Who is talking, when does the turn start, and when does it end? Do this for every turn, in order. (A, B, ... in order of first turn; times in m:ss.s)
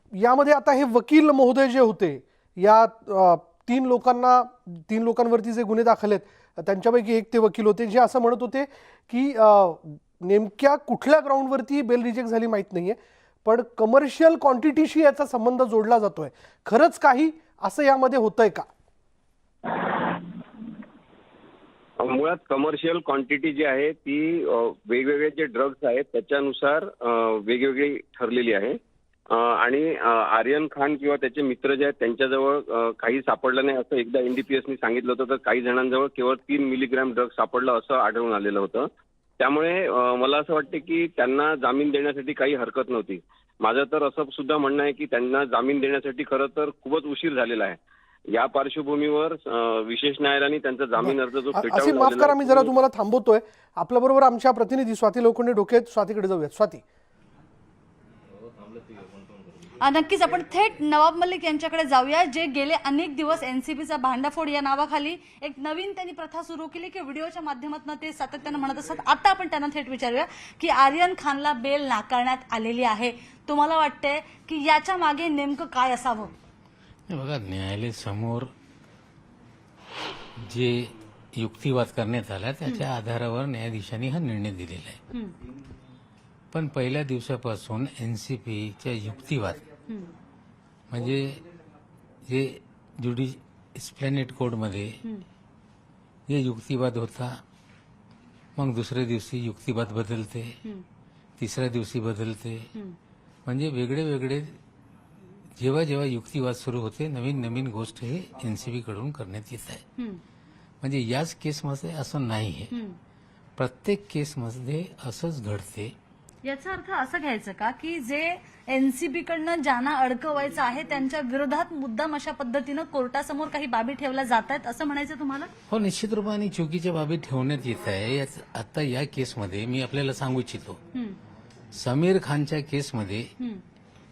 0:00.2-0:18.7 A
0:22.0-0:28.8 B
0:29.3-0:47.8 B
0:48.3-0:52.7 B
0:51.0-0:56.8 A
0:59.8-1:16.3 C
1:17.1-1:18.5 D
1:20.4-1:25.0 D
1:26.5-1:29.7 D
1:29.9-1:30.1 C
1:30.9-1:31.4 D
1:32.3-1:35.0 D
1:36.3-1:37.4 D
1:38.6-1:40.6 D
1:41.4-1:42.7 D
1:43.5-1:44.6 D
1:45.6-1:49.9 D
1:50.8-1:52.7 D
1:52.7-1:53.0 C
1:53.6-1:56.0 D
1:56.4-2:05.5 C
2:05.7-2:10.8 D
2:11.7-2:13.3 D